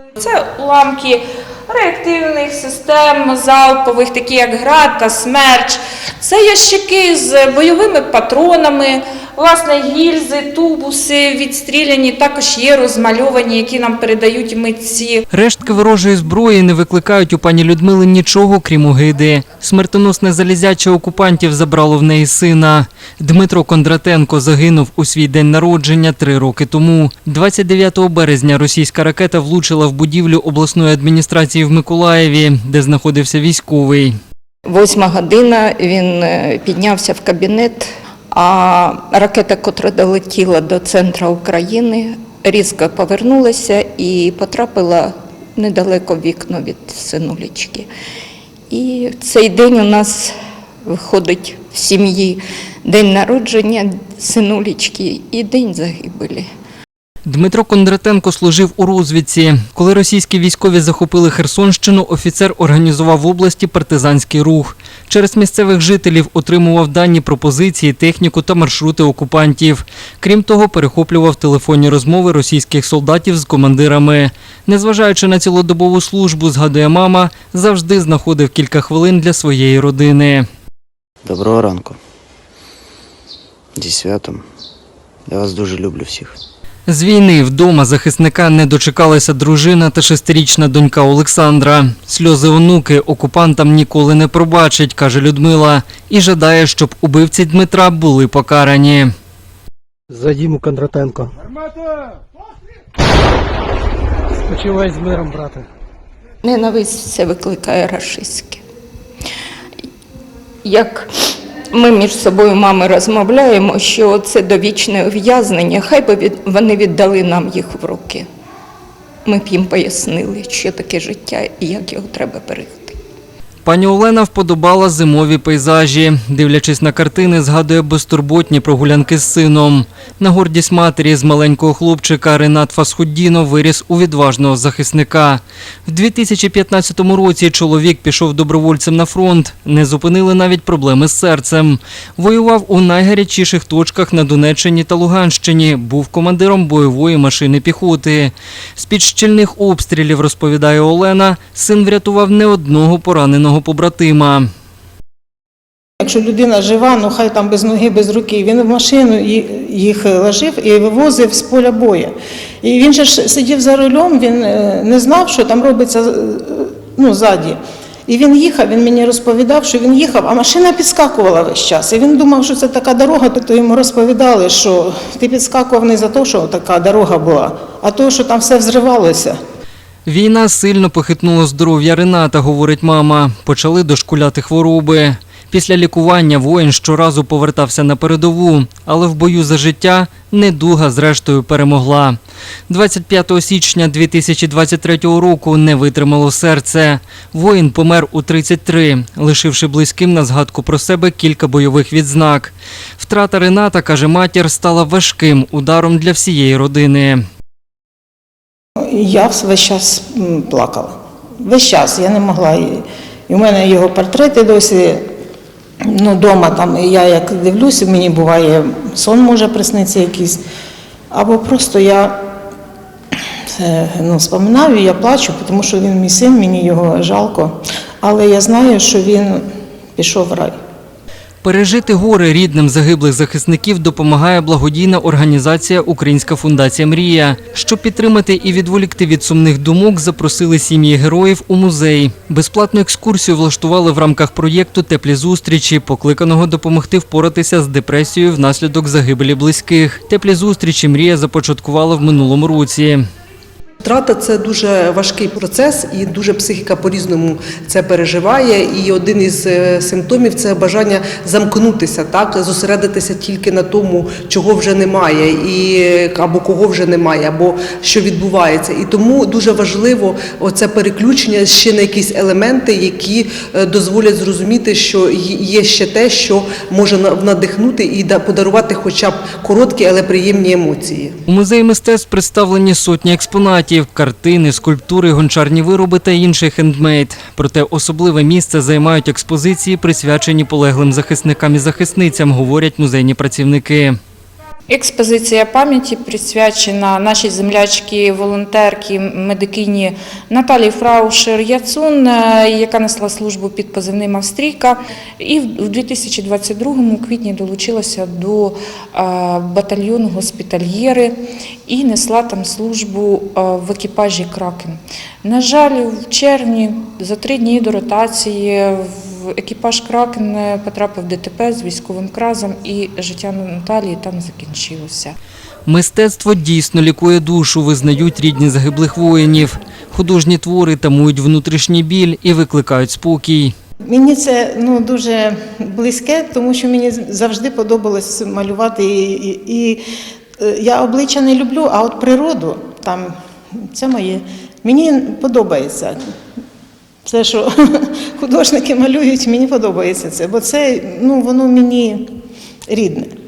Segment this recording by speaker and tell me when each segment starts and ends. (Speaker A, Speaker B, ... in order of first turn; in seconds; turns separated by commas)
Speaker A: 0.2-15.2, Speaker B: 15.3-34.1, Speaker C: 34.7-47.9, Speaker C: 48.7-50.3, Speaker C: 50.9-56.5, Speaker B: 57.2-80.5, Speaker D: 81.2-82.0, Speaker D: 83.8-84.5, Speaker D: 85.3-86.4, Speaker B: 86.9-99.1, Speaker E: 100.1-101.3, Speaker E: 104.4-105.7, Speaker C: 106.4-108.6, Speaker C: 110.6-118.3, Speaker C: 119.2-123.0, Speaker B: 123.7-154.5, Speaker F: 156.0-179.4, Speaker B: 180.1-192.2, Speaker B: 192.7-207.2, Speaker F: 208.8-215.1, Speaker F: 215.8-220.4, Speaker F: 221.1-222.2, Speaker F: 223.6-229.4, Speaker F: 230.0-230.6, Speaker B: 231.4-253.0, Speaker G: 253.8-281.1, Speaker B: 281.3-294.0, Speaker A: 294.7-311.1, Speaker A: 311.7-325.2, Speaker B: 325.7-333.5, Speaker F: 333.9-339.8, Speaker F: 340.4-346.0, Speaker F: 347.1-352.1, Speaker F: 352.7-353.1